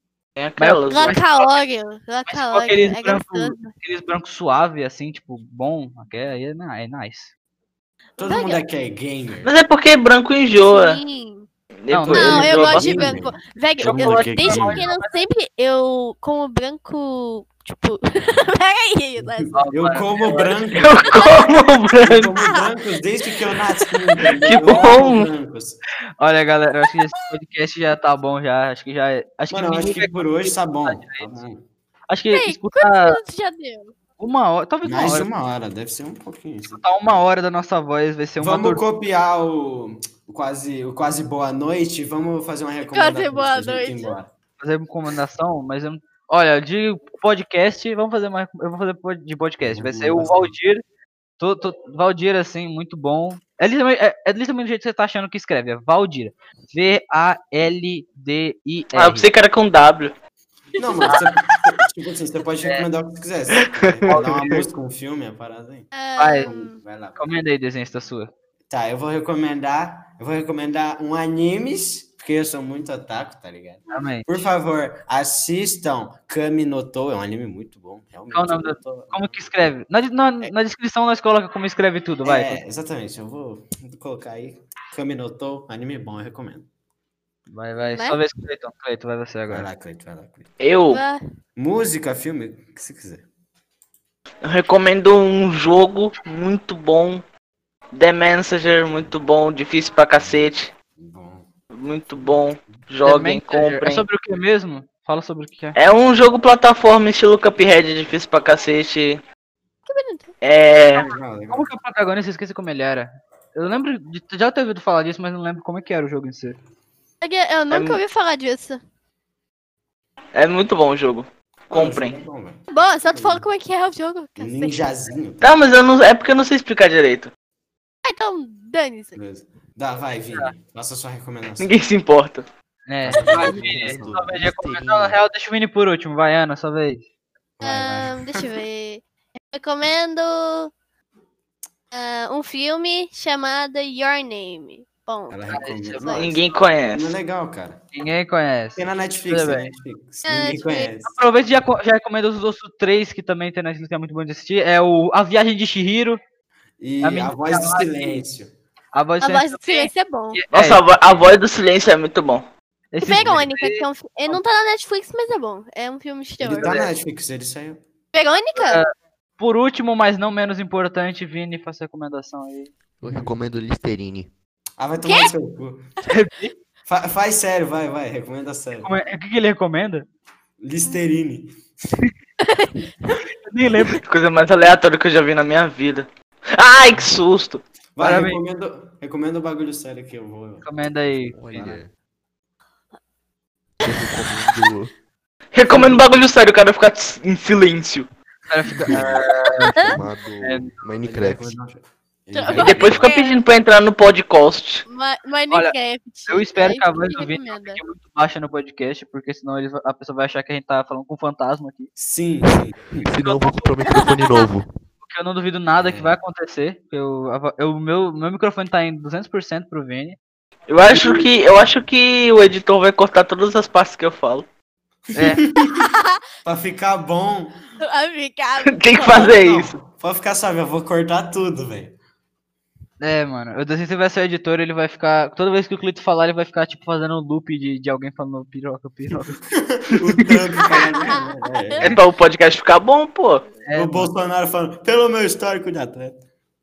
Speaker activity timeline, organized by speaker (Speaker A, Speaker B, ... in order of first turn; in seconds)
Speaker A: 0.4-1.2, 9.4-11.0, 11.8-12.9, 20.7-22.3, 24.5-25.3, 58.9-60.1, 63.6-64.2, 90.6-91.0, 94.5-97.2, 97.9-100.7, 101.7-104.0, 105.8-109.2, 110.4-111.0, 117.7-118.0, 120.3-122.2, 125.4-127.3, 131.6-132.4, 146.2-147.2, 160.5-162.4, 184.0-187.6, 195.5-198.1, 202.6-204.8, 220.7-224.5, 228.7-229.8, 241.8-243.4
Speaker B: 0.6-1.6, 2.3-7.3, 11.9-13.1, 13.8-15.2, 19.6-20.6, 26.2-31.4, 32.1-33.2, 34.2-35.3, 36.7-38.8, 44.6-50.8, 51.4-59.3, 64.1-64.7, 66.2-66.6, 67.2-68.3, 73.9-74.5, 78.3-82.6, 87.5-89.7, 103.0-105.8, 111.5-116.6, 132.9-137.0, 145.5-146.2, 147.9-149.7, 151.0-156.2, 157.0-158.2, 158.9-160.8, 162.9-164.4, 166.6-166.9, 168.6-172.7, 176.1-176.5, 178.8-180.1, 183.5-184.0, 188.0-188.4, 190.6-191.8, 195.7-196.0, 198.5-200.8, 206.3-211.9, 215.1-220.2, 225.2-225.4, 233.0-239.4, 243.7-244.1
Speaker C: 0.9-3.7, 8.2-8.6, 10.7-11.5, 12.1-19.7, 21.1-21.6, 22.4-22.7, 23.6-24.6, 32.3-33.9, 42.8-44.2, 60.8-61.2, 65.9-66.8, 87.9-88.2, 90.9-91.2, 109.9-110.3, 117.2-118.8, 122.7-124.8, 128.0-129.2, 137.6-140.7, 141.9-146.3, 150.2-150.9, 159.2-160.4, 163.0-166.7, 168.1-168.8, 175.0-175.3, 182.4-183.2, 193.8-194.3, 199.4-200.0, 202.3-203.4, 204.9-207.8, 213.2-214.5, 225.7-226.1, 227.8-229.3, 240.9-241.2
Speaker D: 8.2-9.5, 12.2-14.8, 19.2-21.0, 22.0-25.8, 29.5-31.6, 34.8-36.8, 38.4-44.3, 49.6-50.5, 60.8-65.9, 66.5-67.3, 68.7-79.7, 82.2-86.7, 89.5-90.5, 91.6-93.2, 101.0-101.5, 102.2-102.8, 110.9-111.7, 121.7-123.4, 124.4-125.7, 129.2-131.8, 133.0-134.2, 137.6-138.6, 145.3-146.4, 146.9-147.8, 148.8-151.1, 156.8-158.5, 166.4-167.8, 173.1-173.3, 174.8-175.8, 176.9-178.9, 180.6-181.5, 188.0-190.7, 201.0-203.1, 212.0-213.1, 215.8-216.2, 225.1-225.8, 226.4-227.6, 229.0-231.9, 239.5-241.9, 243.7-246.2
Speaker E: 133.1-135.2, 173.0-174.3, 191.3-191.9, 193.8-194.9, 198.8-199.2, 199.8-201.6, 212.5-214.7